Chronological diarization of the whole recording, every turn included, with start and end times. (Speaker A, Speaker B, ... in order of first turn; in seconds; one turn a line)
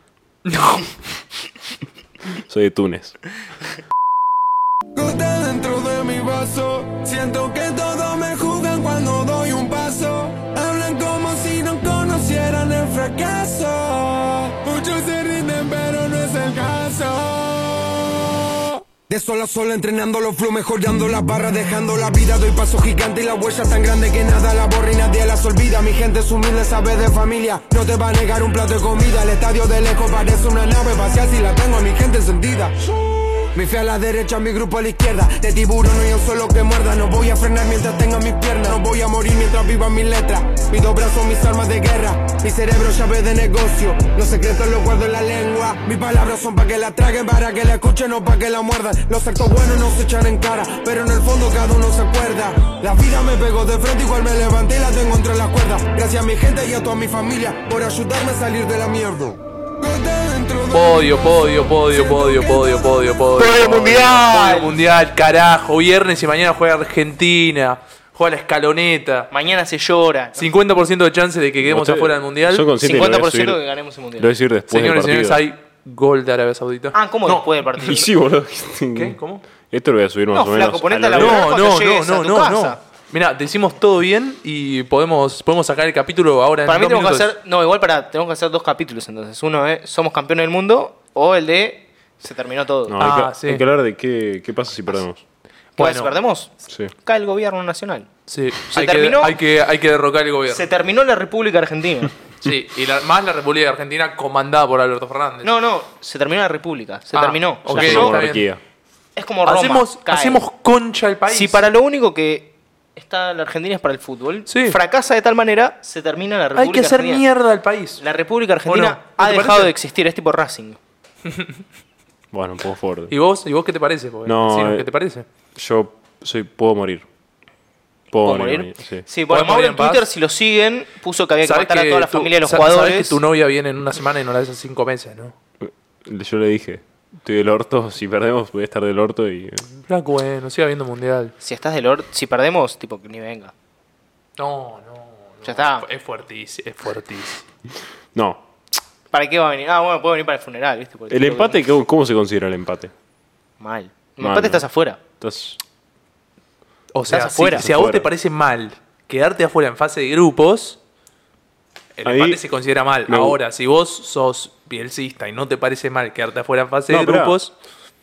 Speaker A: 0.5-0.9
Speaker B: 2.5-3.2
Speaker C: 5.0-64.7
Speaker A: 60.7-69.3
Speaker D: 63.5-64.7
Speaker D: 69.3-70.5
Speaker A: 70.4-72.7
Speaker B: 71.7-73.6
Speaker D: 72.8-74.3
Speaker B: 74.2-75.5
Speaker A: 74.7-77.5
Speaker D: 76.9-78.1
Speaker B: 77.9-79.2
Speaker A: 79.0-79.4
Speaker B: 79.7-81.4
Speaker D: 80.3-82.8
Speaker A: 81.2-87.3
Speaker D: 86.7-93.0
Speaker B: 92.9-95.2
Speaker A: 93.0-93.7
Speaker A: 95.8-96.1
Speaker D: 95.8-98.1
Speaker A: 98.3-100.7
Speaker D: 98.7-99.4
Speaker D: 100.5-102.1
Speaker A: 102.4-105.5
Speaker D: 105.4-108.3
Speaker A: 107.1-108.5
Speaker B: 107.7-108.6
Speaker D: 109.2-110.4
Speaker A: 109.5-111.7
Speaker D: 111.3-117.2
Speaker A: 114.5-114.8
Speaker A: 116.6-118.0
Speaker D: 118.0-120.8
Speaker A: 118.7-119.8
Speaker A: 121.3-121.6
Speaker B: 122.3-123.1
Speaker A: 123.1-125.2
Speaker B: 124.3-124.9
Speaker B: 125.6-127.0
Speaker B: 128.1-129.1
Speaker D: 128.2-133.2
Speaker A: 129.3-130.1
Speaker A: 131.4-135.3
Speaker B: 135.6-139.7
Speaker A: 139.9-141.3
Speaker D: 141.4-143.5
Speaker A: 144.4-147.4
Speaker D: 145.4-145.9
Speaker B: 148.1-148.4
Speaker D: 149.1-151.6
Speaker B: 151.1-152.9
Speaker D: 153.6-155.0
Speaker B: 154.2-155.6
Speaker A: 156.9-160.8
Speaker D: 157.1-157.7
Speaker B: 157.4-158.1
Speaker A: 162.0-167.5
Speaker B: 162.1-162.4
Speaker B: 163.1-163.4
Speaker B: 166.9-167.4